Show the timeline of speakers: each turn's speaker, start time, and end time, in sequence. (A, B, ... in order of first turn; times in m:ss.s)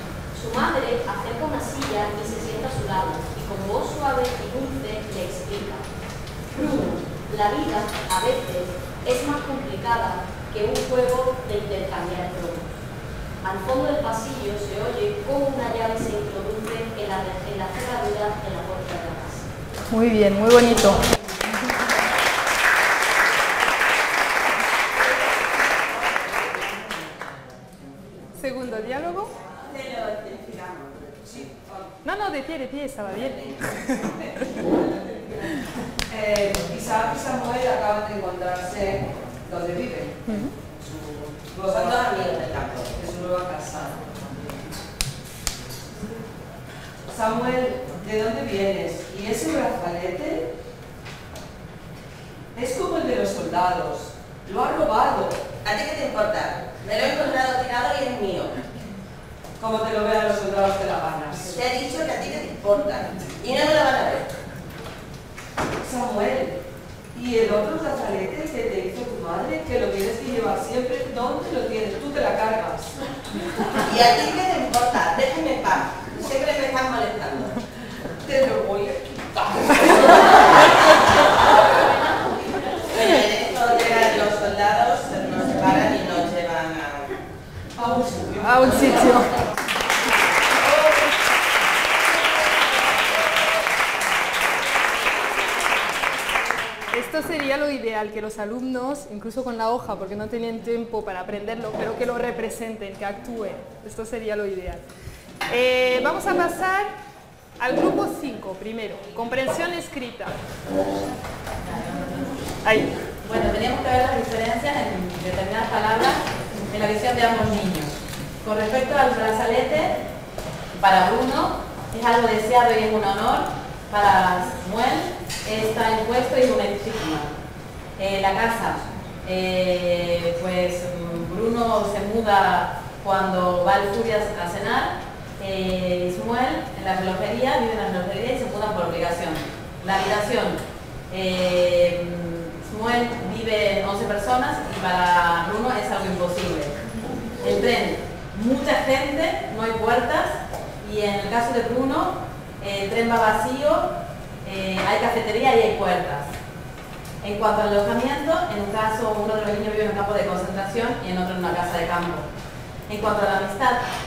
0:00.3-0:05.8 A
0:06.5-0:12.7 A
0:13.4-0:19.4 A
0:19.9-0:21.0 B
0:28.4-0:29.3 B
0:31.2-0:31.7 C
0:32.0-0:34.1 B
0:36.1-0:40.2 C
0:40.3-0:40.5 B
0:40.8-0:42.3 C
0:41.7-0:42.9 D
0:42.9-0:44.5 C
0:47.1-0:50.5 C
0:52.5-0:55.4 C
0:55.6-0:58.6 D
0:59.6-1:01.6 C
1:01.5-1:04.3 D
1:05.8-1:06.6 C
1:07.1-1:13.0 C
1:13.8-1:17.6 D
1:18.2-1:19.9 C
1:22.9-1:27.1 D
1:27.8-1:29.3 C
1:28.4-1:29.3 B
1:36.9-1:44.8 B
1:45.5-1:46.9 B
1:47.6-1:50.3 B
1:51.6-1:52.4 E
1:52.6-1:52.9 B
1:53.2-2:00.0 E
2:00.8-2:07.3 E
2:08.0-2:26.7 E
2:27.4-2:36.3 E
2:37.2-2:42.3 E
2:42.9-2:43.8 E